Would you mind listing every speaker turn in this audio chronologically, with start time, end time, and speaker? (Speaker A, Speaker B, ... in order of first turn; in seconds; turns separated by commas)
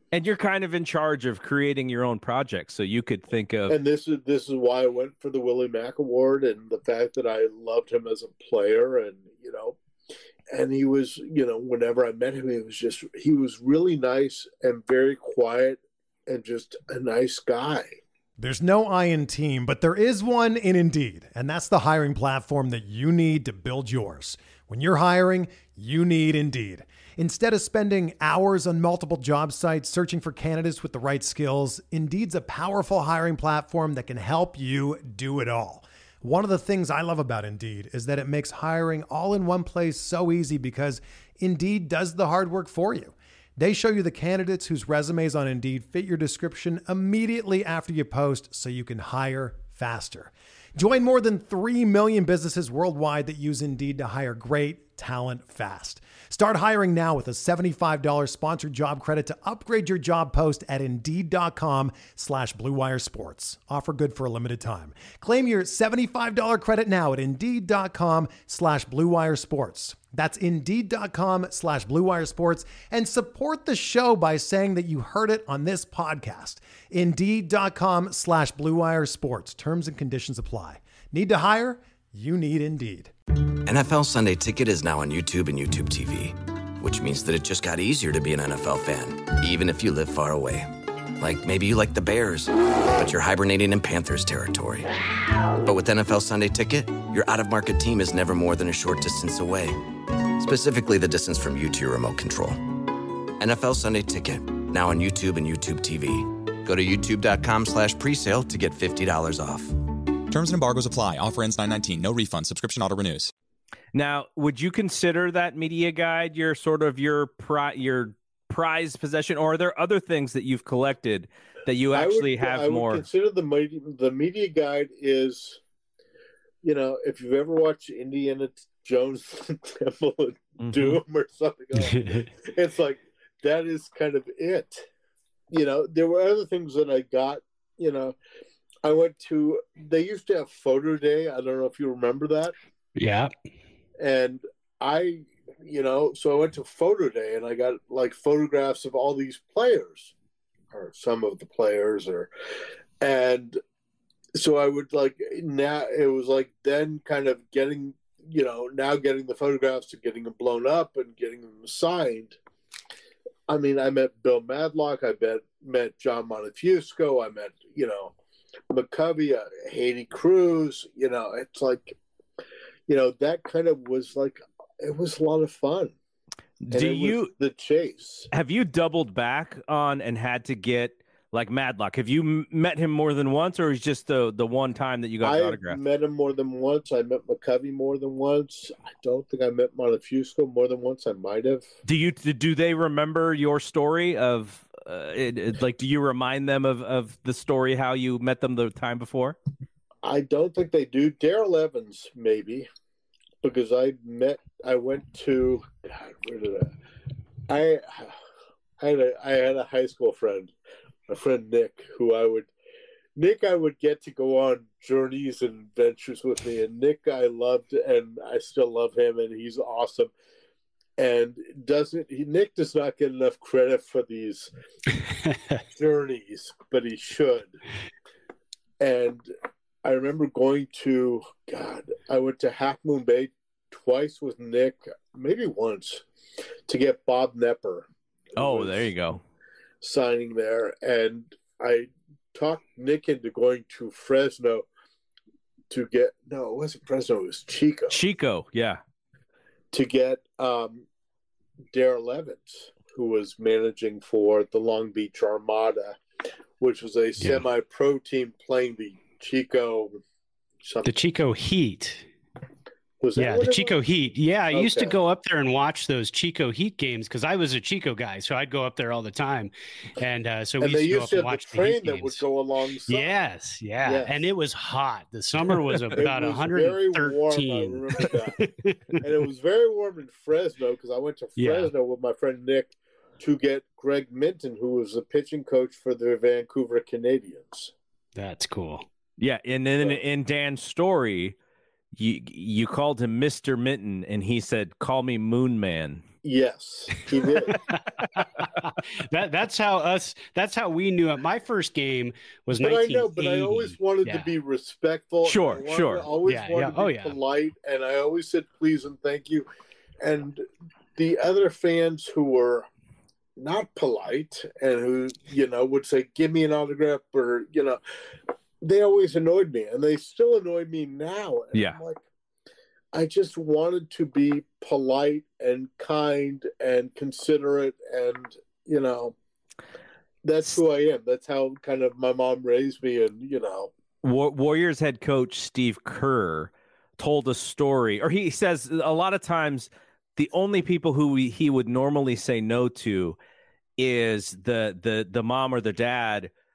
Speaker A: 0.1-3.8, Speaker B: 3.7-9.8, Speaker B: 10.5-18.0, Speaker C: 18.4-83.1, Speaker D: 83.7-94.9, Speaker D: 95.6-99.8, Speaker D: 100.4-102.7, Speaker D: 103.4-109.8, Speaker E: 110.3-113.3, Speaker A: 113.9-123.0, Speaker B: 121.9-125.6, Speaker B: 126.6-134.9, Speaker A: 130.6-131.0, Speaker F: 131.8-132.3, Speaker B: 135.5-138.2, Speaker B: 138.8-142.6, Speaker F: 143.0-143.3, Speaker B: 144.0-150.1, Speaker B: 150.7-152.3, Speaker B: 153.0-153.6, Speaker B: 154.3-162.4, Speaker B: 163.5-168.2, Speaker B: 168.7-172.0, Speaker B: 172.9-175.9, Speaker A: 176.6-177.3, Speaker B: 176.7-178.3, Speaker A: 178.3-185.8, Speaker B: 185.2-191.7, Speaker A: 191.9-199.4, Speaker B: 200.0-202.7, Speaker B: 203.4-206.7, Speaker B: 207.5-208.2, Speaker B: 208.8-210.5, Speaker B: 211.1-212.5, Speaker B: 213.2-220.1, Speaker B: 221.0-224.5, Speaker F: 225.2-225.6, Speaker B: 225.7-227.6, Speaker B: 228.8-229.3, Speaker B: 229.8-236.0, Speaker B: 236.7-238.9, Speaker A: 238.4-239.2, Speaker B: 239.8-244.7, Speaker B: 245.7-248.0, Speaker A: 247.9-248.8, Speaker B: 249.7-250.9, Speaker B: 251.7-256.0, Speaker B: 256.6-260.0, Speaker F: 257.2-257.4, Speaker B: 260.6-261.1, Speaker F: 260.8-262.1, Speaker B: 263.0-263.8, Speaker F: 263.2-272.2, Speaker B: 264.5-265.0, Speaker B: 270.6-273.2, Speaker F: 272.9-279.0, Speaker B: 273.8-274.3, Speaker A: 275.8-276.1, Speaker B: 275.9-278.4, Speaker B: 279.0-287.7, Speaker F: 281.4-281.7, Speaker F: 288.2-288.9, Speaker A: 289.2-291.4, Speaker A: 291.9-296.0, Speaker B: 296.2-297.6, Speaker F: 297.5-304.3, Speaker B: 302.6-309.5, Speaker A: 305.2-306.1, Speaker F: 306.2-307.2, Speaker B: 310.0-310.4, Speaker B: 311.0-312.7, Speaker B: 313.4-317.8, Speaker B: 318.6-322.0, Speaker A: 321.5-321.8, Speaker B: 322.9-329.1, Speaker B: 330.2-333.7, Speaker A: 334.0-343.2, Speaker A: 343.8-346.3